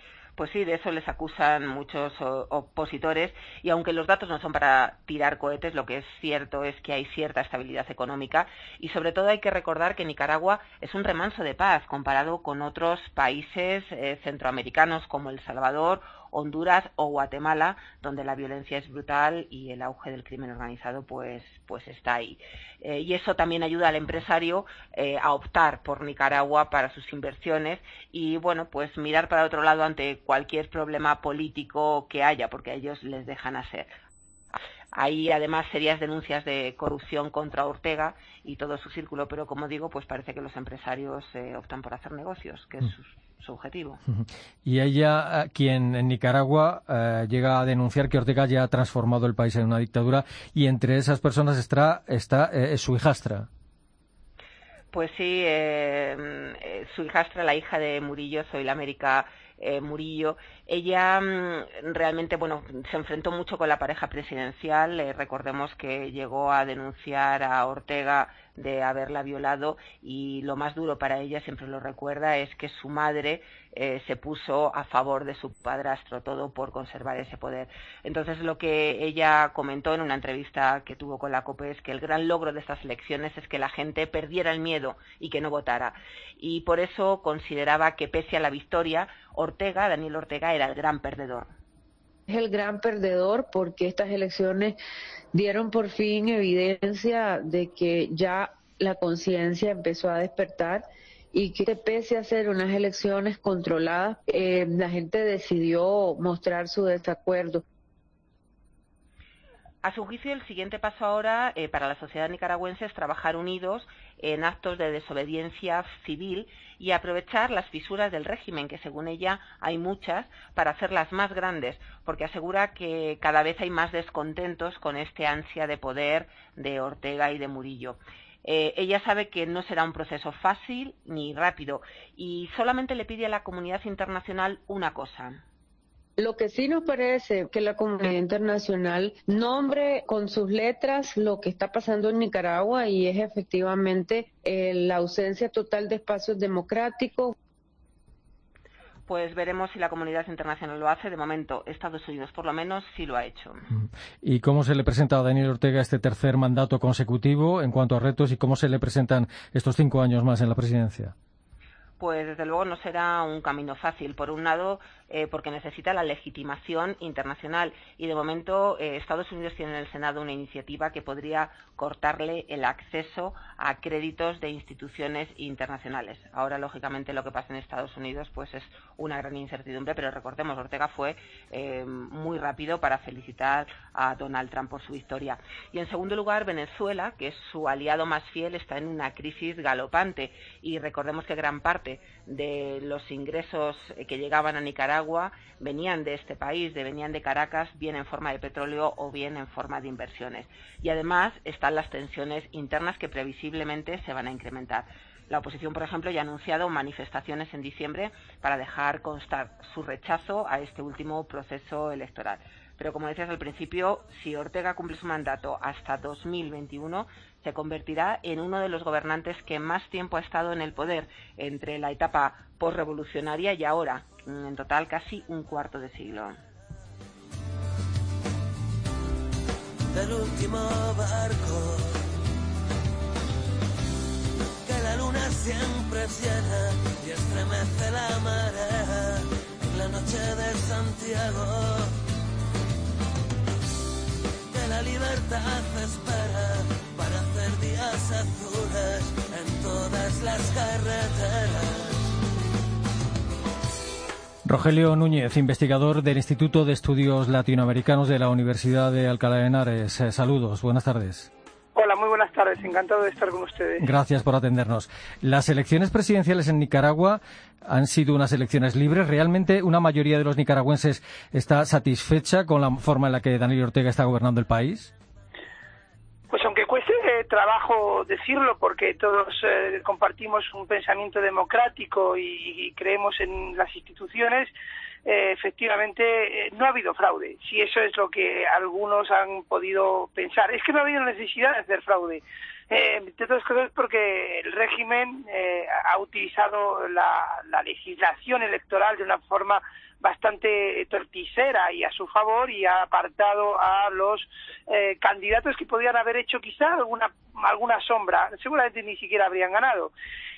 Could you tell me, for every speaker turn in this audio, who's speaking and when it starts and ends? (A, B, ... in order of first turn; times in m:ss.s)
0:00.4-0:33.9 A
0:34.9-0:44.0 A
0:44.1-0:53.5 B
0:54.9-1:31.5 A
1:32.3-1:34.8 C
1:35.3-1:47.6 C
1:49.8-2:15.4 A
2:16.2-2:27.3 C
2:29.1-2:33.7 A
2:33.7-2:41.1 B
2:42.0-3:46.4 A
3:49.9-3:52.1 D
3:54.6-4:02.0 D
4:04.5-4:12.0 D
4:14.4-4:21.3 B
4:21.7-4:23.9 E
4:23.8-4:34.9 B
4:36.3-4:44.5 E
4:45.0-5:09.9 E